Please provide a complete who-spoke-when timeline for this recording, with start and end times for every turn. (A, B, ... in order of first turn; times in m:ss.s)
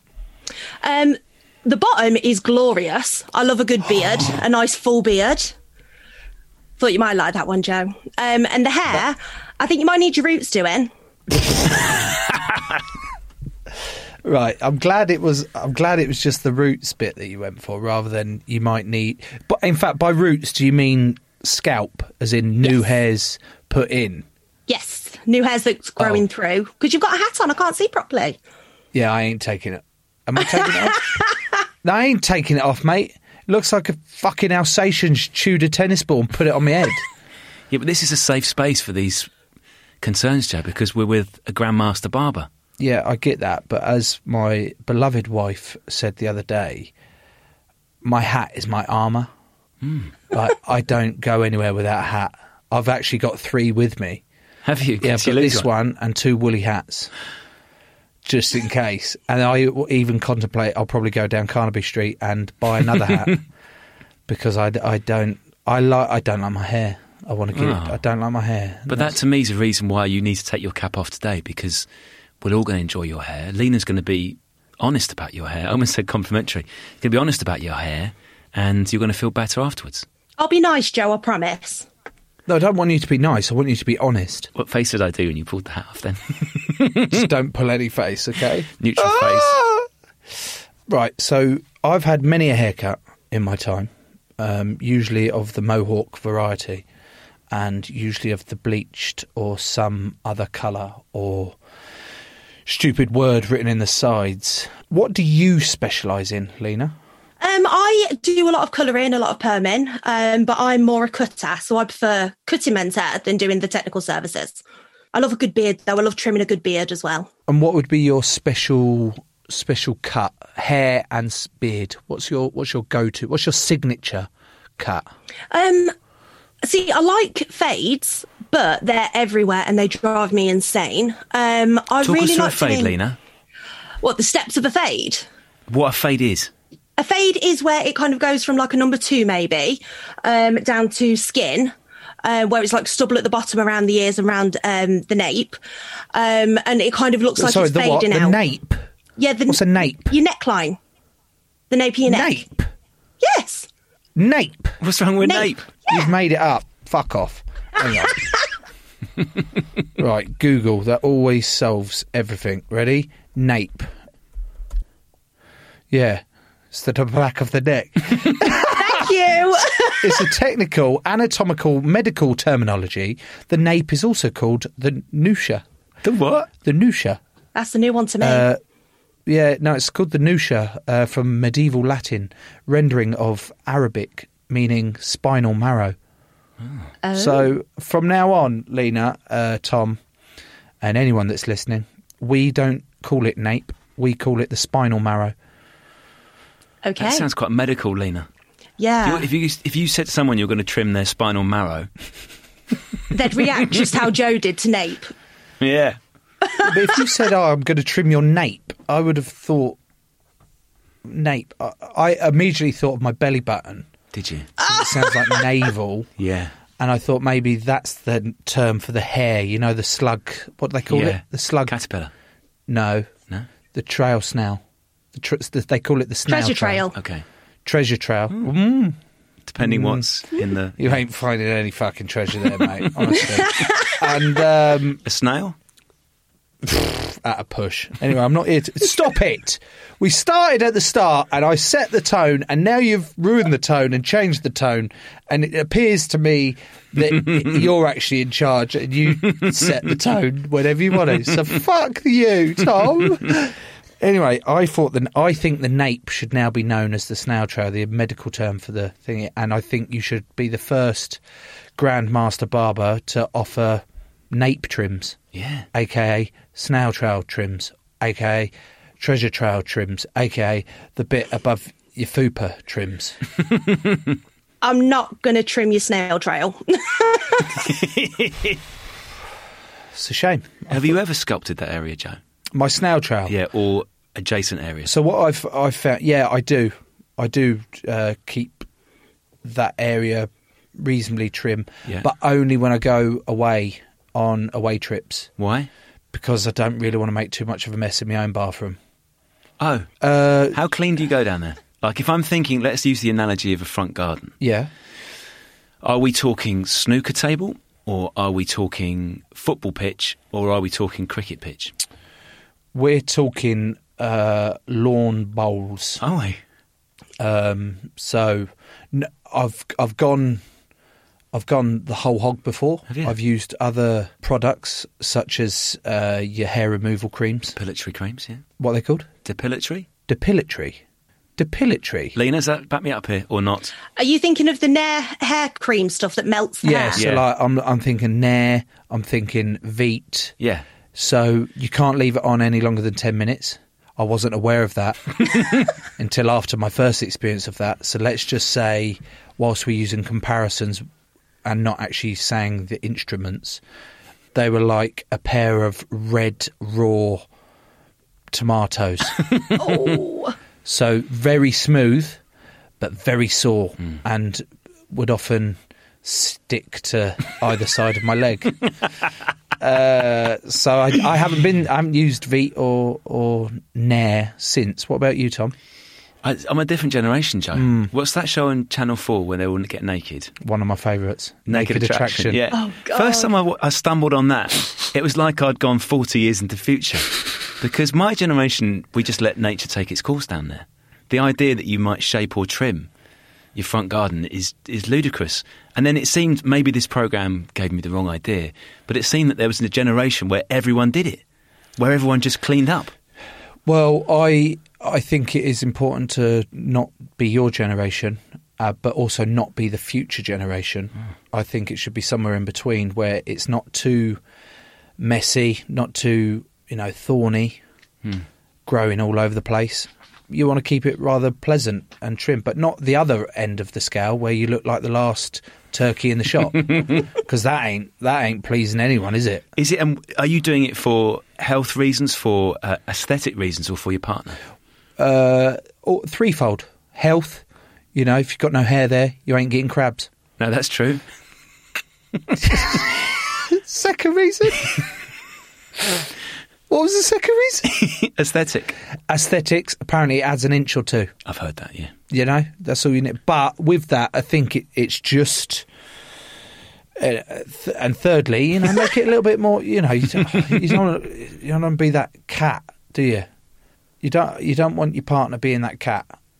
0:00.8-0:05.6 A
0:06.8-0:10.9 A
0:14.2-0:24.2 B
0:24.7-0:28.4 A
0:26.0-0:26.2 B
0:28.9-0:31.1 B
0:30.6-0:31.3 A
0:31.8-0:37.0 B
0:37.7-0:39.3 C
0:40.0-0:42.5 C
0:42.8-0:46.9 B
0:48.0-0:49.3 B
0:49.8-0:50.1 C
0:50.3-0:54.2 B
0:54.6-0:55.7 C
0:55.0-0:57.1 B
0:58.2-1:03.4 B
1:04.3-1:09.2 B
1:07.5-1:08.0 C
1:08.9-1:11.9 C
1:12.4-1:20.0 C
1:20.4-1:21.9 A
1:22.5-1:24.5 B
1:24.6-1:27.2 C
1:27.1-1:29.9 B
1:28.8-1:29.6 C
1:30.9-1:36.8 B
1:37.5-1:41.6 B
1:42.6-1:47.0 B
1:47.4-1:54.6 A
1:55.1-1:57.3 A
1:57.5-2:05.1 B
2:05.5-2:05.9 A
2:06.6-2:13.0 A
2:12.0-2:13.2 C
2:14.0-2:15.3 A
2:15.7-2:16.5 C
2:17.0-2:21.7 A
2:22.2-2:25.6 A
2:26.1-2:28.4 A
2:27.4-2:28.8 B
2:29.2-2:30.8 A
2:29.5-2:30.1 B
2:31.7-2:32.4 A
2:32.1-2:32.7 B
2:33.2-2:33.7 A
2:34.2-2:34.8 B
2:34.8-2:35.7 C
2:35.2-2:36.1 A
2:35.9-2:38.2 B
2:40.0-2:43.9 B
2:45.9-2:49.0 B
2:48.6-2:50.2 A
2:50.0-2:55.6 B
2:56.0-2:56.5 C
2:56.6-2:57.2 B
2:57.6-2:58.5 A
2:58.2-2:58.6 B
2:59.2-3:06.0 B
3:07.0-3:07.5 A
3:07.1-3:10.0 B
3:10.8-3:15.4 B
3:16.8-3:17.2 A
3:17.0-3:18.3 C
3:18.8-3:19.3 A
3:19.0-3:21.9 C
3:23.1-3:25.1 A
3:25.6-3:26.0 C
3:26.6-3:29.8 B
3:31.0-3:33.9 B
3:34.1-3:34.5 C
3:34.6-3:35.5 A
3:34.6-3:36.1 B
3:36.2-3:36.5 C
3:36.8-3:41.7 B
3:40.9-3:42.1 C
3:42.7-3:43.2 B
3:43.7-3:44.6 B
3:45.1-3:46.9 B
3:46.3-3:47.0 A
3:47.0-3:47.2 C
3:47.6-3:49.0 B
3:49.5-3:51.0 C
3:49.6-3:50.1 B
3:50.8-3:55.0 B
3:53.2-3:54.1 A
3:55.0-3:55.6 C
3:56.6-4:21.2 B
4:21.8-4:25.2 B
4:25.3-4:25.6 C
4:25.7-4:33.2 B
4:34.6-4:37.6 A
4:37.7-4:38.6 C
4:40.0-4:41.0 B
4:40.7-4:42.2 C
4:42.6-4:43.4 B
4:43.3-4:44.9 C
4:44.9-4:48.7 B
4:49.4-4:55.3 B
4:55.4-4:55.7 C
4:56.1-4:58.8 B
4:59.6-4:59.9 C
5:00.0-5:00.6 B
5:00.5-5:04.3 C
5:04.4-5:04.7 B
5:05.8-5:11.7 C
5:12.7-5:16.0 B
5:16.0-5:16.4 C
5:17.2-5:20.4 B
5:21.3-5:27.6 B
5:22.9-5:23.1 C
5:27.6-5:28.4 C
5:28.6-5:29.1 B
5:29.2-5:29.9 C
5:30.1-5:30.8 B
5:31.4-5:32.2 B
5:32.1-5:33.7 C
5:34.0-5:37.0 A
5:36.6-5:40.3 B
5:37.0-5:37.2 C
5:41.0-5:45.4 B
5:46.0-5:50.8 B
5:51.4-5:53.6 B
5:54.3-5:57.2 B
5:58.3-5:59.2 B
5:59.5-6:00.4 A
6:00.6-6:02.2 B
6:02.8-6:08.6 B
6:09.6-6:15.6 B
6:16.2-6:20.3 C
6:17.5-6:17.9 B
6:20.4-6:22.4 B
6:21.5-6:32.9 C
6:22.5-6:23.3 A
6:33.6-6:41.2 C
6:41.8-6:42.9 C
6:43.6-6:54.2 B
6:55.0-6:57.6 B
6:58.6-7:09.4 B
7:09.6-7:14.4 C
7:15.0-7:20.1 B
7:20.4-7:21.0 C
7:22.4-7:24.8 B
7:26.7-7:27.8 B
7:27.8-7:28.8 C
7:29.1-7:31.1 B
7:31.3-7:31.9 C
7:32.1-7:35.6 B
7:37.0-7:43.3 B
7:44.0-7:46.1 B